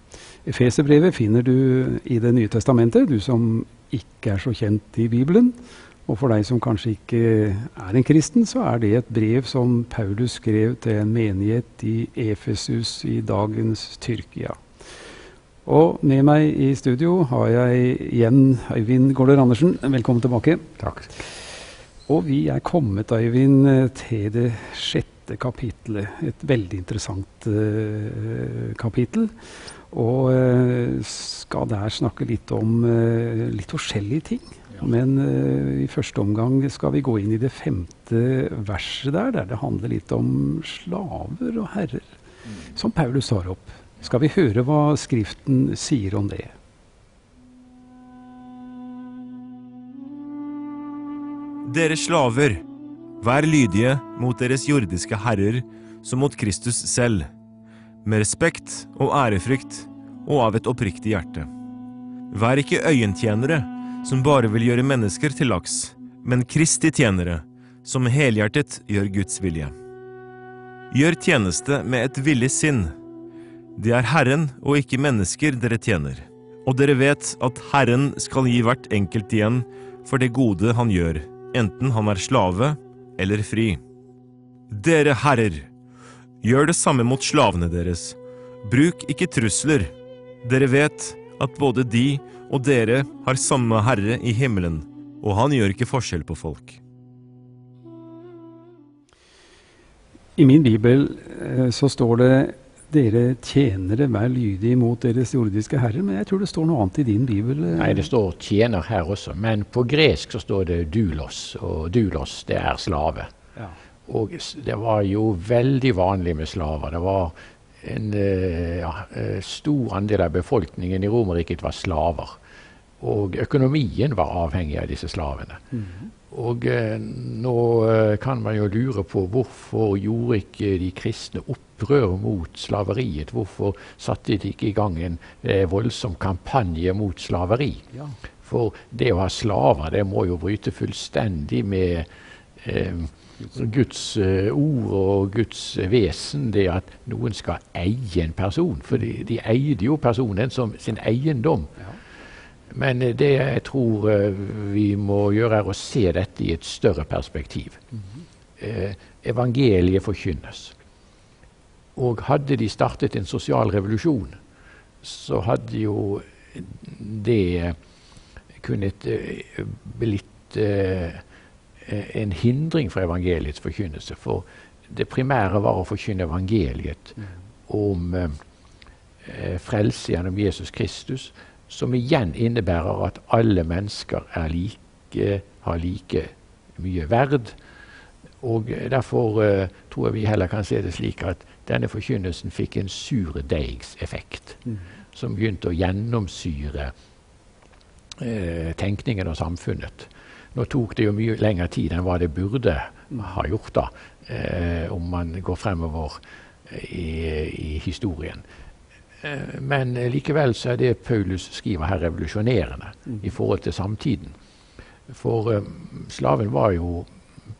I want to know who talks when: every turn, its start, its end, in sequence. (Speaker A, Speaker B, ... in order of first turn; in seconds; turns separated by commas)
Speaker A: 0.4-14.6, Speaker A: 15.7-20.7, Speaker B: 20.8-21.1, Speaker A: 22.1-29.3, Speaker A: 29.9-46.5, Speaker C: 51.6-52.6, Speaker C: 53.2-57.3, Speaker C: 58.0-61.5, Speaker C: 62.3-69.7, Speaker C: 70.9-72.9, Speaker C: 73.8-83.8, Speaker C: 84.7-85.7, Speaker C: 86.4-89.9, Speaker C: 90.4-96.8, Speaker A: 100.4-108.1, Speaker B: 107.8-113.3, Speaker B: 114.0-122.4, Speaker B: 123.0-125.6, Speaker A: 125.7-126.1, Speaker B: 126.3-137.8, Speaker A: 137.9-138.2, Speaker B: 138.4-151.8, Speaker B: 152.7-157.8, Speaker B: 158.6-160.7, Speaker B: 161.9-164.4, Speaker B: 165.0-167.8, Speaker B: 168.6-171.2, Speaker B: 171.8-178.4, Speaker B: 179.2-187.6, Speaker B: 188.4-194.6, Speaker B: 195.1-196.9, Speaker B: 198.2-208.4, Speaker B: 209.2-214.3, Speaker B: 215.1-217.1